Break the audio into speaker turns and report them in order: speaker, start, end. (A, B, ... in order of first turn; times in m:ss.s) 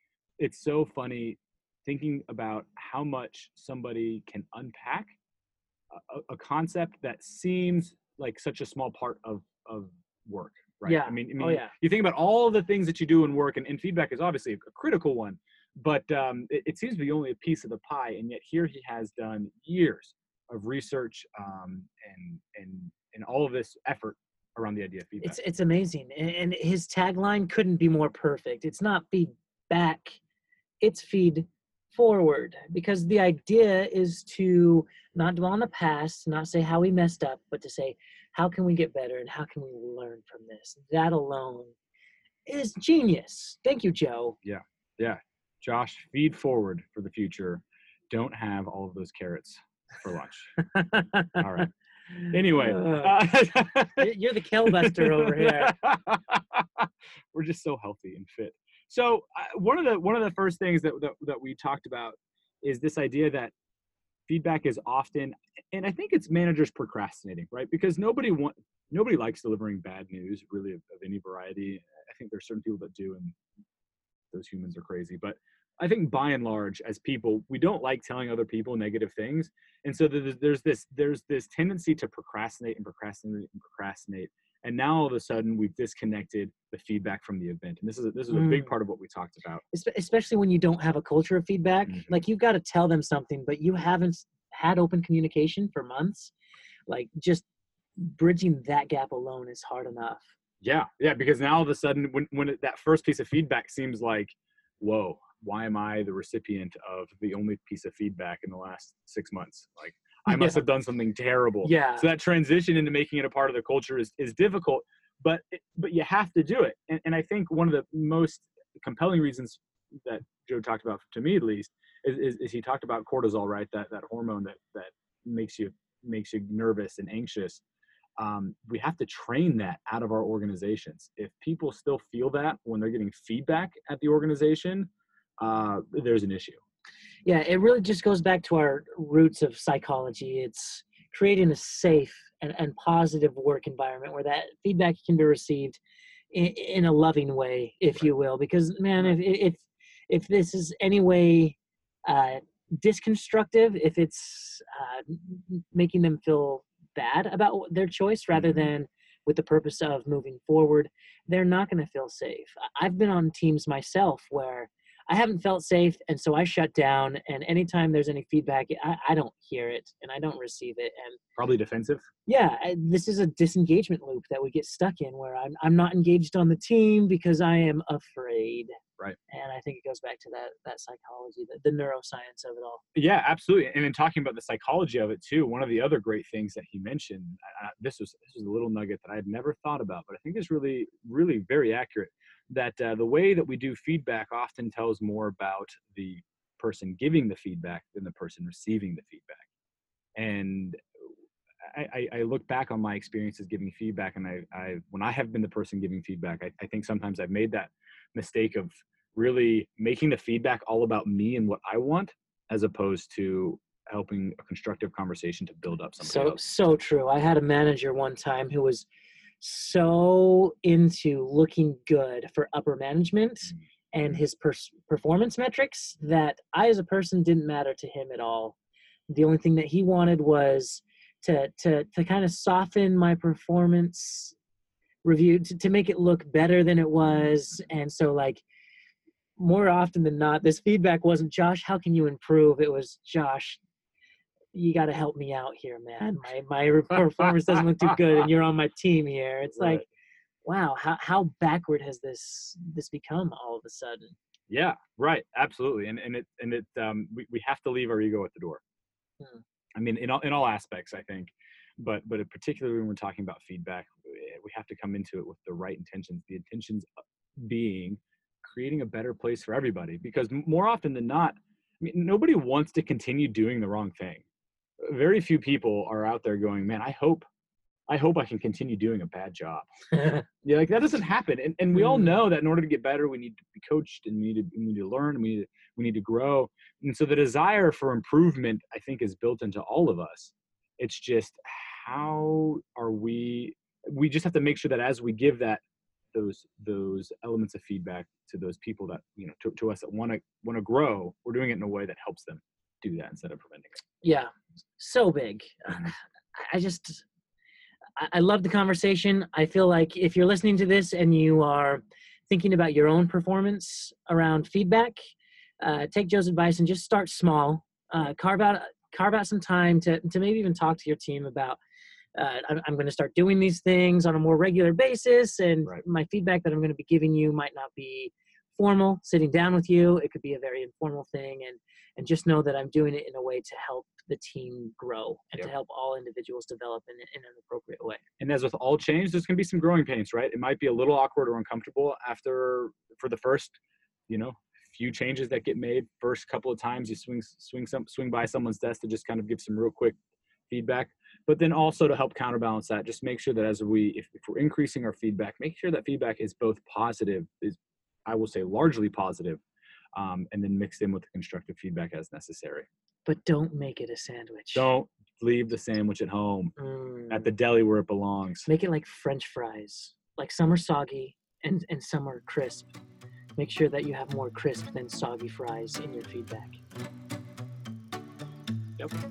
0:00.4-0:05.1 A
0:05.9-0:25.4 A
0:10.8-0:11.7 B
0:25.2-0:30.2 B
0:30.8-0:41.8 B
0:42.5-0:44.4 B
0:44.4-0:50.5 A
0:50.7-0:51.4 B
0:51.4-0:51.7 A
0:52.2-0:53.2 B
0:52.2-0:54.1 A
0:54.0-0:55.8 B
0:54.7-1:03.5 A
1:04.3-1:13.4 A
1:14.3-1:29.6 A
1:28.3-1:28.7 B
1:29.7-1:36.3 B
1:31.9-1:32.2 A
1:36.9-1:37.5 B
1:38.0-1:40.3 B
1:40.6-2:07.6 A
1:50.3-1:50.6 B
1:51.6-1:52.1 B
2:08.2-2:14.9 A
2:15.4-2:16.6 A
2:17.2-2:25.8 B
2:26.3-2:51.2 B
2:51.4-2:52.0 A
2:52.3-2:58.7 B
2:59.3-3:02.8 B
3:03.0-3:19.4 A
3:20.2-3:20.8 A
3:21.7-3:36.4 A
3:36.0-3:38.9 B
3:39.4-3:48.6 B
3:49.1-3:54.4 B
3:55.0-3:58.4 B
3:59.4-4:03.6 B
4:04.5-4:09.8 B
4:09.5-4:09.8 A
4:10.4-4:14.2 B
4:14.5-4:18.6 A
4:19.8-4:34.2 A
4:34.8-4:37.2 A
4:37.9-4:39.7 A
4:40.4-5:03.8 A
4:41.8-4:42.1 B
5:04.0-5:07.0 B
5:08.0-5:21.6 B
5:22.2-5:38.0 B
5:38.2-5:43.6 A
5:44.1-5:50.0 A
5:50.5-5:59.4 A
6:00.0-6:02.7 A
6:03.1-6:04.7 B
6:04.5-6:06.5 A
6:06.6-6:07.3 B
6:07.1-6:08.5 A
6:08.5-6:12.7 B
6:13.4-6:16.6 B